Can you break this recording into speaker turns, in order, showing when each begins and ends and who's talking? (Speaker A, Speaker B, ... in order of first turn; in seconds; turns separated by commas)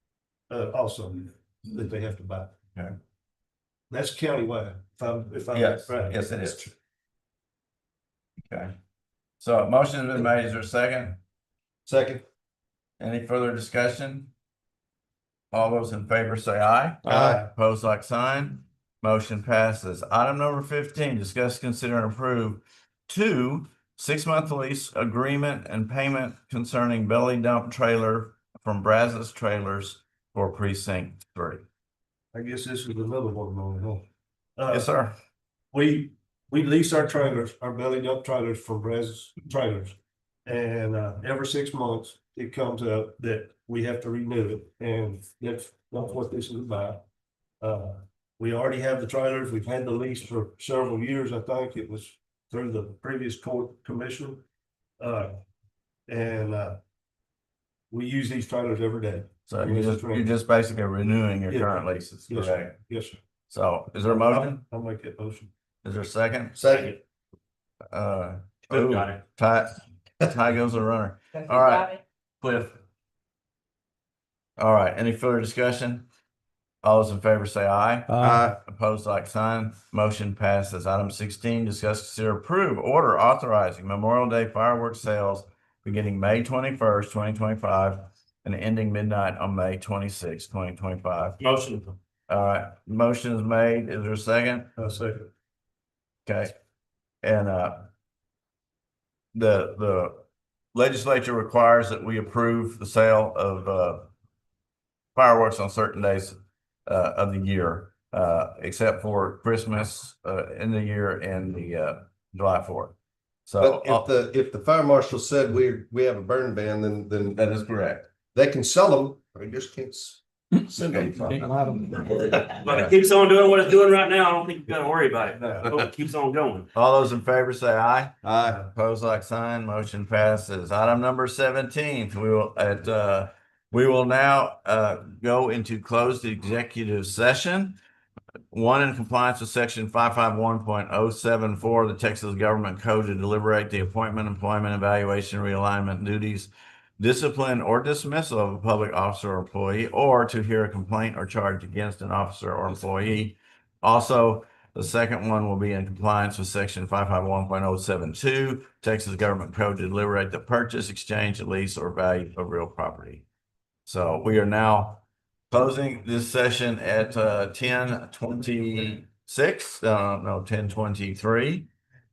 Speaker A: 0.5-2.5, Speaker A: 3.9-6.6, Speaker B: 5.5-6.7, Speaker B: 8.5-8.8, Speaker B: 9.4-11.2, Speaker C: 11.9-12.2, Speaker B: 13.0-14.3, Speaker B: 15.5-31.6, Speaker D: 17.0-17.4, Speaker C: 17.1-17.4, Speaker A: 32.3-34.0, Speaker A: 34.6-34.9, Speaker B: 34.7-35.1, Speaker A: 35.7-47.0, Speaker A: 47.6-54.4, Speaker A: 55.0-55.3, Speaker A: 56.1-56.8, Speaker A: 57.9-60.3, Speaker B: 59.5-62.7, Speaker A: 61.5-63.2, Speaker B: 63.5-64.6, Speaker A: 64.1-65.5, Speaker B: 65.8-66.6, Speaker C: 66.6-67.0, Speaker A: 66.7-67.0, Speaker B: 67.9-72.8, Speaker E: 68.7-69.2, Speaker B: 74.6-76.1, Speaker B: 76.8-91.4, Speaker D: 78.1-78.5, Speaker E: 91.4-91.9, Speaker B: 92.3-94.7, Speaker A: 94.8-95.3, Speaker B: 96.3-96.5, Speaker B: 97.2-97.9, Speaker B: 99.3-100.2, Speaker B: 100.7-104.1, Speaker B: 105.2-106.3, Speaker B: 106.9-112.9, Speaker B: 113.5-114.1, Speaker C: 113.6-117.4, Speaker B: 117.4-118.1, Speaker C: 118.3-120.2, Speaker D: 120.7-122.1, Speaker B: 120.8-121.4, Speaker E: 122.3-126.7, Speaker B: 122.6-122.9, Speaker B: 126.7-137.8, Speaker C: 128.2-128.7, Speaker B: 138.5-163.3, Speaker B: 163.9-171.7